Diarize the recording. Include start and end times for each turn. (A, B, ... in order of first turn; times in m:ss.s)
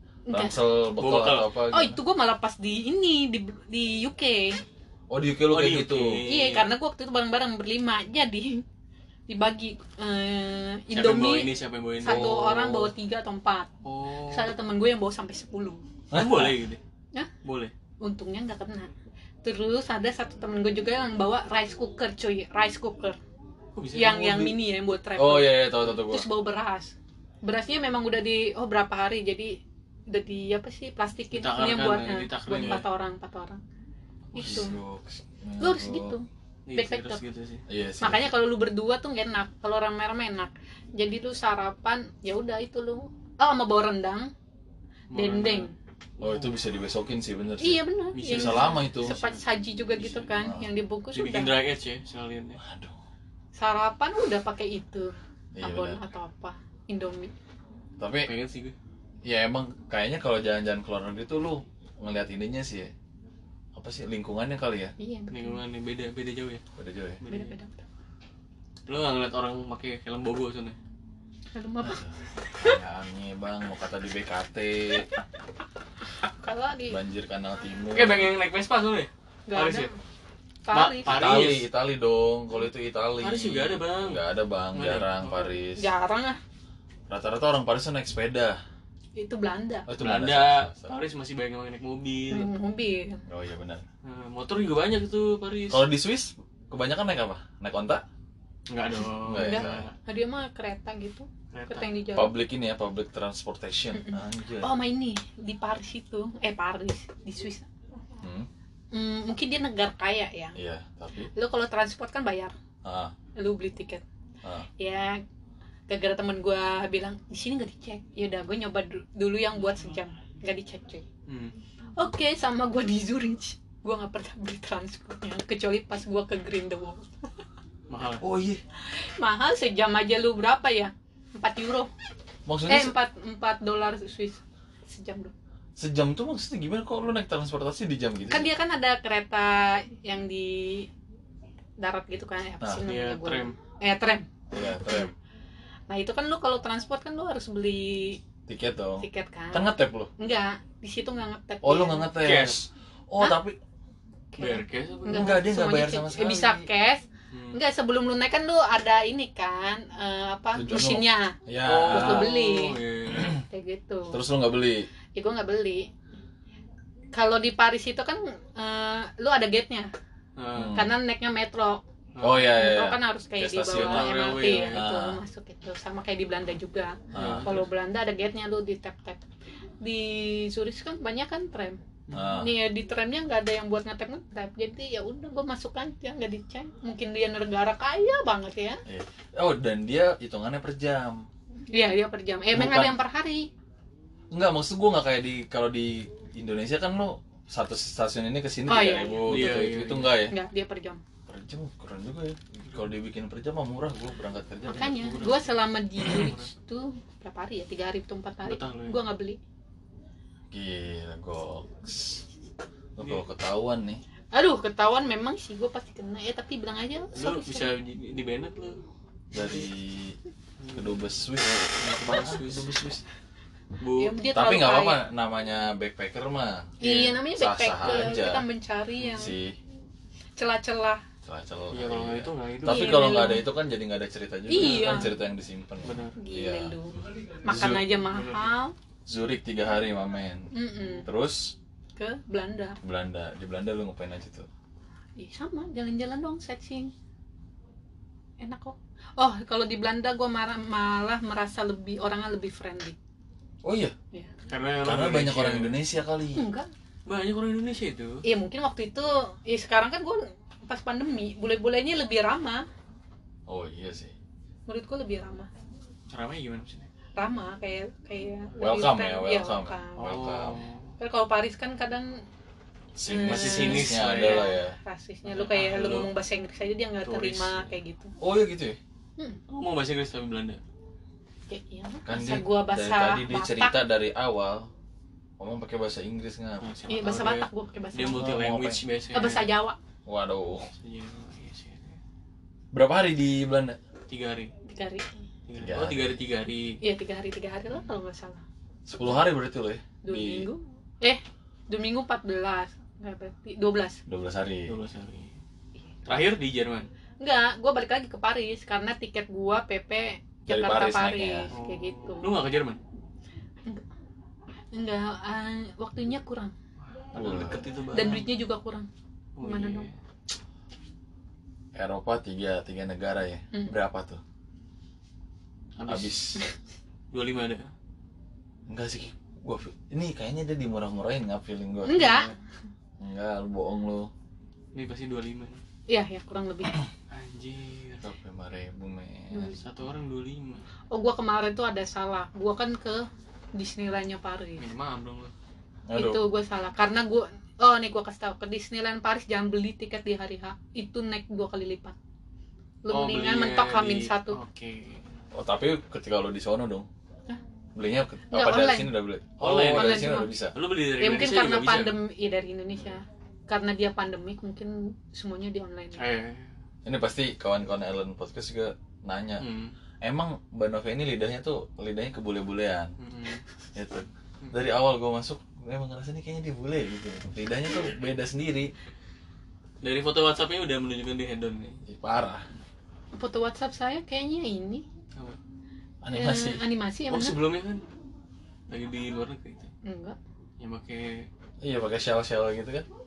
0:00.3-0:00.6 A
0:00.3-0:02.0 B
0:01.0-0:01.5 C
0:01.7-0:04.6 A
0:05.1-0:06.2 B
0:05.5-0:06.7 C
0:06.3-0:08.6 A
0:09.3-0:13.7 A
0:10.9-0:12.8 C
0:13.8-0:14.5 C
0:14.2-0:15.8 A
0:16.1-0:16.6 B
0:16.1-0:16.8 C
0:17.4-0:17.7 C
0:18.0-0:18.9 A
0:19.4-0:23.2 A
0:23.8-0:24.6 C
0:23.9-0:33.6 A
0:25.2-0:26.3 B
0:31.3-0:32.8 C
0:34.3-0:34.6 C
0:34.3-0:34.8 A
0:34.4-0:36.2 B
0:35.6-0:37.2 A
0:36.6-0:37.6 C
0:37.7-0:38.3 B
0:38.0-0:44.3 A
0:45.1-0:46.5 C
0:45.1-0:45.7 A
0:46.2-0:49.2 B
0:47.6-0:51.6 A
0:48.1-0:49.4 C
0:50.0-0:50.3 C
0:50.4-0:50.7 B
0:51.1-0:52.6 C
0:52.6-0:53.0 B
0:53.5-0:57.3 A
0:55.5-0:56.0 B
0:58.0-0:58.3 B
0:58.2-0:58.7 C
0:59.2-1:02.9 B
1:03.7-1:04.9 B
1:05.0-1:05.6 A
1:05.3-1:06.6 C
1:06.8-1:07.2 B
1:07.2-1:07.5 C
1:07.3-1:07.8 A
1:08.8-1:10.8 C
1:11.5-1:12.7 A
1:11.8-1:15.1 B
1:16.4-1:17.0 A
1:16.9-1:18.3 B
1:17.9-1:19.9 C
1:19.5-1:19.9 A
1:20.6-1:21.5 A
1:20.7-1:21.6 C
1:21.0-1:25.9 B
1:23.2-1:24.2 C
1:24.7-1:25.6 C
1:25.8-1:26.4 A
1:27.1-1:28.6 B
1:29.2-1:29.9 A
1:29.9-1:30.9 B
1:30.0-1:32.5 C
1:32.3-1:33.2 A
1:33.3-1:33.8 B
1:34.0-1:35.8 C
1:35.7-1:38.0 B
1:38.7-1:39.9 C
1:39.2-1:39.9 B
1:39.4-1:42.3 A
1:41.5-1:41.9 C
1:42.1-1:44.7 B
1:44.0-1:47.7 A
1:48.2-1:48.5 B
1:48.9-1:50.6 A
1:50.5-1:51.3 B
1:51.3-1:52.5 A
1:52.8-1:53.1 B
1:53.4-1:54.0 A
1:54.4-1:54.7 B
1:54.8-1:55.2 A
1:55.9-2:01.0 A
2:01.3-2:01.5 C
2:02.0-2:07.3 A
2:07.9-2:08.2 C
2:08.2-2:08.6 B
2:08.8-2:11.9 A
2:12.4-2:12.9 B
2:12.7-2:15.3 A
2:15.8-2:18.5 B
2:18.3-2:20.9 A
2:21.8-2:24.3 A
2:22.8-2:23.6 C
2:24.5-2:25.1 B
2:25.9-2:28.2 A
2:28.5-2:30.1 B
2:29.0-2:32.1 A
2:31.6-2:33.6 B
2:32.2-2:32.6 C
2:34.3-2:41.4 A
2:34.4-2:35.4 C
2:35.1-2:36.6 B
2:37.3-2:37.6 C
2:40.5-2:42.3 B
2:41.6-2:43.4 C
2:41.9-2:42.8 A
2:43.5-2:44.2 A
2:44.1-2:44.9 B
2:45.1-2:45.9 A
2:47.1-2:49.9 A
2:50.4-2:50.8 C
2:50.5-2:50.9 B
2:50.7-2:51.8 A
2:52.1-2:52.5 C
2:52.2-2:55.2 B
2:52.5-2:59.2 A
2:53.7-2:54.8 C
2:57.1-2:57.5 B
2:57.1-2:57.6 C
2:59.8-3:01.8 A
3:02.1-3:02.3 C
3:02.1-3:02.5 B
3:02.4-3:08.8 A
3:08.8-3:11.3 B
3:11.7-3:13.5 A
3:12.5-3:13.0 B
3:14.3-3:20.4 B
3:18.7-3:19.7 A
3:19.2-3:20.2 C
3:20.3-3:21.0 A
3:21.3-3:25.1 B
3:24.7-3:29.4 A
3:24.7-3:26.5 C
3:28.4-3:29.0 C
3:30.5-3:32.2 B
3:33.0-3:34.0 B
3:34.3-3:37.7 A
3:37.1-3:38.8 C
3:39.3-3:40.2 B
3:39.3-3:39.7 C
3:40.6-3:41.0 C
3:40.7-3:43.0 B
3:41.8-3:43.0 C
3:43.8-3:44.2 C
3:44.0-3:45.0 A
3:44.3-3:48.5 B
3:46.8-3:49.4 A
3:46.8-3:47.1 C
3:49.0-3:49.3 C
3:49.1-3:49.6 B
3:50.4-3:51.0 A
3:51.2-3:56.8 B
3:51.7-3:53.3 C
3:52.6-3:53.4 A
3:54.5-3:55.1 A
3:54.6-3:55.1 C
3:55.8-3:56.2 C
3:56.2-3:58.7 A
3:57.4-3:57.8 B
3:58.0-3:58.5 C
3:59.1-4:00.5 B
4:00.5-4:01.0 A
4:01.0-4:01.5 B
4:02.0-4:02.8 A
4:02.8-4:04.5 B
4:05.2-4:06.9 A
4:08.4-4:13.0 A
4:13.6-4:13.9 B
4:14.5-4:15.8 C
4:14.8-4:16.4 B
4:16.3-4:16.7 A
4:17.0-4:18.2 C
4:18.2-4:22.6 A
4:23.5-4:24.1 B
4:24.7-4:25.5 A
4:26.1-4:26.9 C
4:27.2-4:30.2 A
4:28.6-4:30.6 B
4:30.0-4:30.9 C
4:31.0-4:32.2 A
4:32.9-4:34.8 B
4:33.1-4:38.1 A
4:33.2-4:34.5 C
4:35.2-4:36.1 C
4:37.0-4:37.7 C
4:38.2-4:38.8 B
4:39.5-4:40.6 C
4:41.5-4:43.8 A
4:42.0-4:44.7 B
4:45.4-4:46.6 B
4:46.6-4:49.5 C
4:46.9-4:48.3 A
4:48.1-4:48.8 B
4:49.1-4:49.8 A
4:50.0-4:50.7 B
4:50.8-4:52.0 C
4:52.7-4:53.8 B
4:54.1-4:54.5 C
4:54.6-4:55.2 A
4:55.5-4:56.8 C
4:55.6-4:56.2 B
4:56.8-4:58.4 A
4:58.9-5:00.5 B
5:00.0-5:04.0 A
5:04.1-5:04.7 B
5:04.7-5:05.3 C
5:06.0-5:06.9 C
5:07.2-5:12.3 A
5:10.5-5:11.5 B
5:11.5-5:12.8 C
5:14.7-5:16.5 A
5:16.8-5:18.3 C
5:17.1-5:17.7 B
5:17.9-5:18.9 A
5:19.4-5:19.9 C
5:19.4-5:19.9 A
5:21.7-5:24.2 B
5:25.8-5:26.4 C
5:25.8-5:26.4 B
5:27.1-5:27.7 C
5:28.7-5:32.1 B
5:31.8-5:32.3 A
5:31.9-5:32.3 C
5:33.0-5:34.1 B
5:34.7-5:35.6 C
5:35.9-5:36.8 A
5:37.1-5:38.0 C
5:38.0-5:39.6 B
5:39.3-5:39.6 A
5:39.6-5:40.6 C
5:40.9-5:44.7 A
5:44.6-5:45.3 C
5:45.9-5:46.2 B
5:45.9-5:52.0 A
5:52.8-5:54.4 A
5:52.9-5:55.0 C
5:55.3-5:56.9 B
5:57.7-6:00.6 B
5:58.3-5:58.9 A
5:59.4-6:02.0 C
5:59.7-6:00.3 A
6:01.0-6:06.0 A
6:06.0-6:06.5 C
6:06.8-6:09.5 B
6:09.4-6:09.7 C
6:10.0-6:12.9 B
6:13.0-6:13.4 C
6:13.7-6:18.7 B
6:19.8-6:21.8 C
6:21.9-6:22.4 B
6:23.1-6:24.8 A
6:26.0-6:26.6 B
6:26.1-6:27.4 A
6:27.1-6:27.8 C
6:28.7-6:29.7 C
6:29.8-6:30.2 A
6:30.6-6:31.3 C
6:31.6-6:32.9 B